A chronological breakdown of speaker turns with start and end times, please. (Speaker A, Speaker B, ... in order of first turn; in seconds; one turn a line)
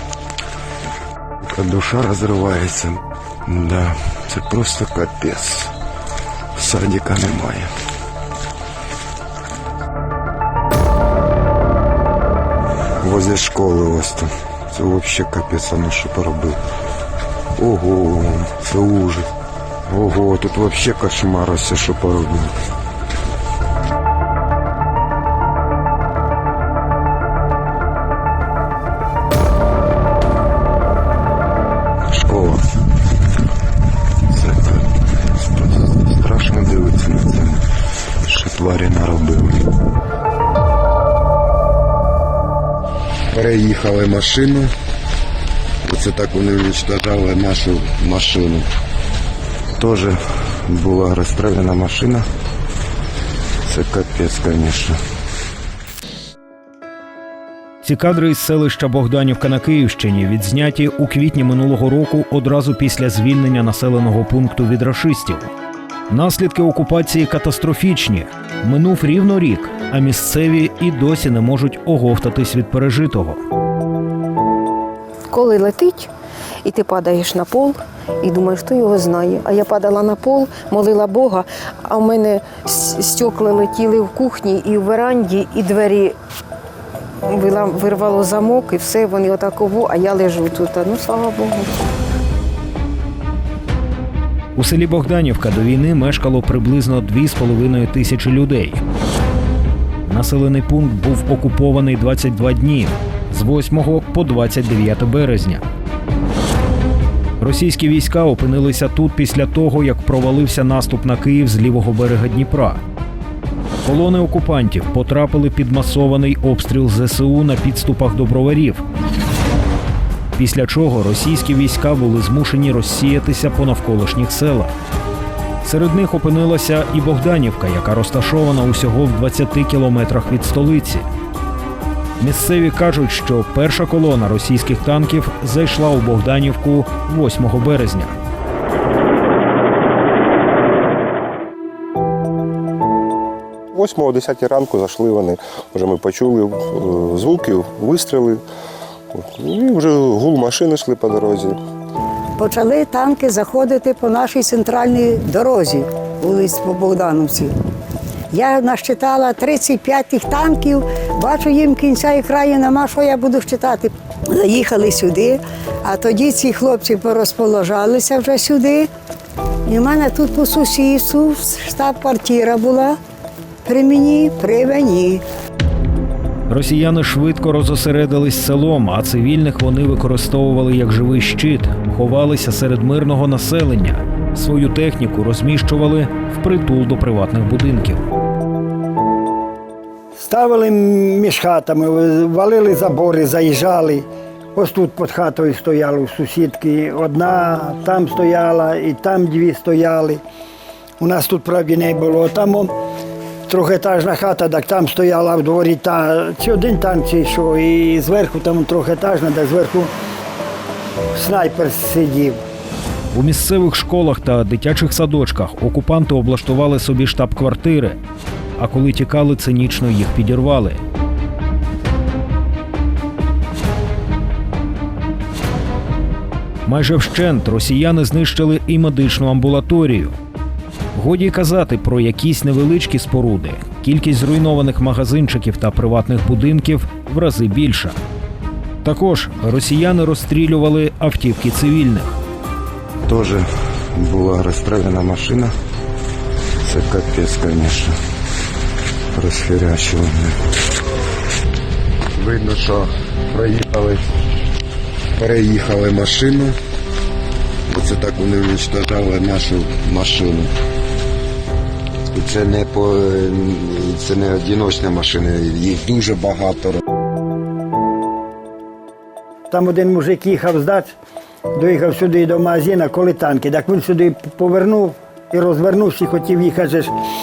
Speaker A: 1.4-5.7
Speaker A: 6.5-7.7
Speaker A: 13.0-16.6
Speaker A: 17.6-19.3
Speaker A: 19.9-22.5
Speaker A: 32.1-32.6
Speaker A: 34.3-37.6
Speaker A: 38.2-39.7
Speaker A: 43.3-44.7
Speaker A: 45.8-48.6
Speaker A: 49.8-52.2
Speaker A: 53.6-55.0
Speaker B: 57.8-65.5
Speaker B: 66.1-73.4
Speaker C: 75.3-76.1
Speaker C: 76.6-86.2
Speaker C: 87.2-91.7
Speaker B: 94.5-98.8
Speaker B: 100.0-105.6
Speaker B: 107.4-112.8
Speaker B: 113.8-118.8
Speaker B: 120.3-124.7
Speaker B: 125.6-131.1
Speaker B: 132.2-138.1
Speaker D: 143.7-148.4
Speaker D: 149.1-151.6
Speaker E: 152.4-157.5
Speaker E: 158.3-168.9
Speaker E: 169.7-172.9
Speaker E: 173.6-175.2
Speaker B: 176.5-188.1
Speaker F: 190.2-200.2
Speaker F: 201.0-202.7
Speaker F: 203.5-209.9
Speaker F: 211.1-212.4
Speaker B: 213.1-218.0
Speaker B: 218.6-220.8
Speaker B: 226.6-230.2
Speaker B: 230.9-238.0
Speaker B: 238.8-242.2
Speaker A: 243.1-245.5
Speaker A: 246.6-248.0
Speaker A: 249.1-250.4
Speaker A: 252.2-254.1
Speaker A: 255.2-256.6
Speaker A: 257.7-260.5
Speaker A: 262.1-266.8
Speaker F: 269.5-270.9
Speaker F: 271.5-276.9